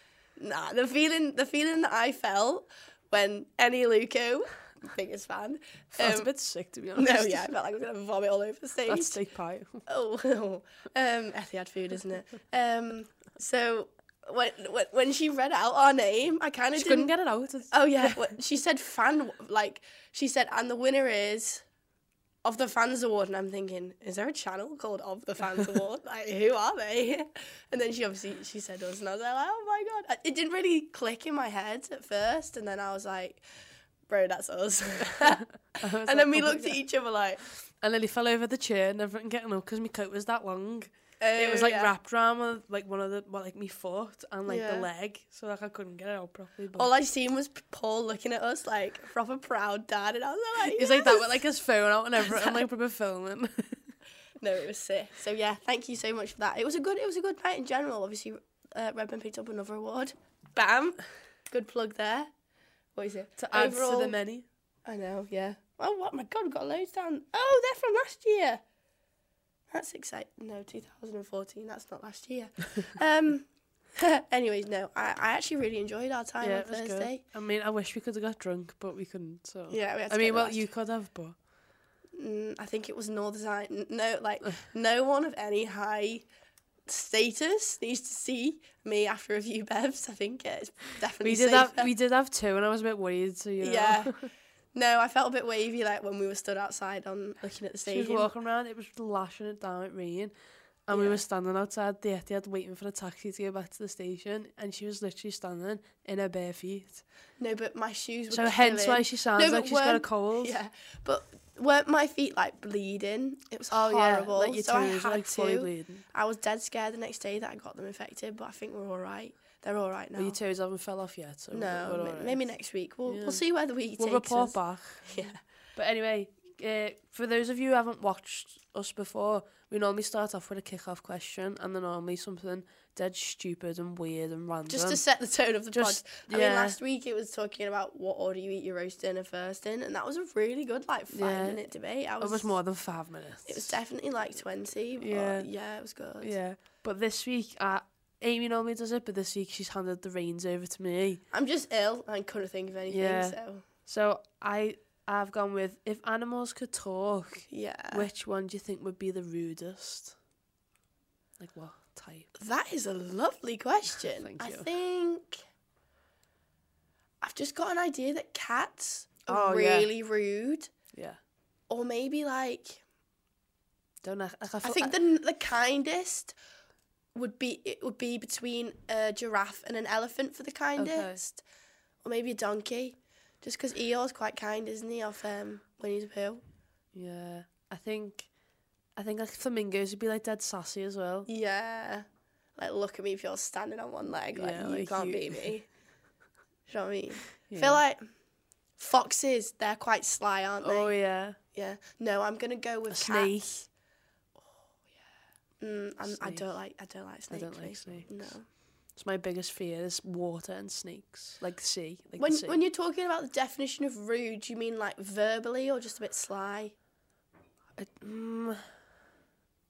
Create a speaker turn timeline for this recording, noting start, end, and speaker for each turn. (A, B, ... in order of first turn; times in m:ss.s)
0:00.4-0:06.3 A
0:06.0-0:07.4 B
0:07.0-0:09.2 A
0:08.9-0:09.8 B
0:09.8-0:17.1 A
0:16.7-0:18.2 B
0:17.7-0:21.6 A
0:22.4-0:33.4 A
0:34.1-0:35.4 A
0:35.2-0:36.8 B
0:36.0-0:37.4 A
0:37.8-0:46.9 B
0:41.2-0:41.9 A
0:44.5-0:44.9 A
0:46.7-0:51.4 A
0:50.7-0:53.9 B
0:52.2-0:52.6 A
0:54.4-1:02.3 A
1:03.0-1:04.2 A
1:03.4-1:04.4 B
1:04.8-1:08.6 A
1:09.7-1:17.2 A
1:16.4-1:21.4 B
1:19.7-1:20.7 A
1:22.2-1:26.2 A
1:26.9-1:31.9 A
1:31.2-1:34.3 B
1:33.6-1:38.3 A
1:37.9-1:40.3 B
1:40.8-1:47.0 B
1:40.9-1:41.2 A
1:47.4-2:00.4 A
1:48.3-1:50.6 B
1:53.7-1:56.0 B
2:00.2-2:02.4 B
2:01.5-2:05.4 A
2:03.1-2:03.4 B
2:04.0-2:15.0 B
2:14.7-2:22.6 A
2:15.7-2:16.8 B
2:21.1-2:21.6 B
2:22.2-2:23.8 B
2:23.5-2:26.4 A
2:25.0-2:25.5 B
2:26.2-2:31.2 B
2:31.3-2:33.6 A
2:32.9-2:40.2 B
2:37.5-2:38.1 A
2:41.4-2:42.3 B
2:42.4-2:45.4 A
2:44.2-2:44.7 B
2:47.2-2:50.7 A
2:49.3-2:49.9 B
2:50.9-2:51.2 B
2:51.7-2:52.8 A
2:54.0-2:54.9 B
2:54.6-2:56.4 A
2:57.1-3:01.4 A
3:00.8-3:01.2 B
3:02.0-3:06.4 A
3:06.9-3:08.3 B
3:09.0-3:11.3 B
3:11.3-3:12.0 A
3:12.6-3:15.7 A
3:14.3-3:15.5 B
3:16.7-3:18.1 A
3:17.4-3:17.8 B
3:18.8-3:23.6 A
3:20.6-3:21.4 B
3:22.9-3:23.7 B
3:25.6-3:28.5 A
3:26.0-3:26.4 B
3:27.3-3:28.1 B
3:28.9-3:32.6 B
3:32.2-3:36.7 A
3:37.8-3:38.7 B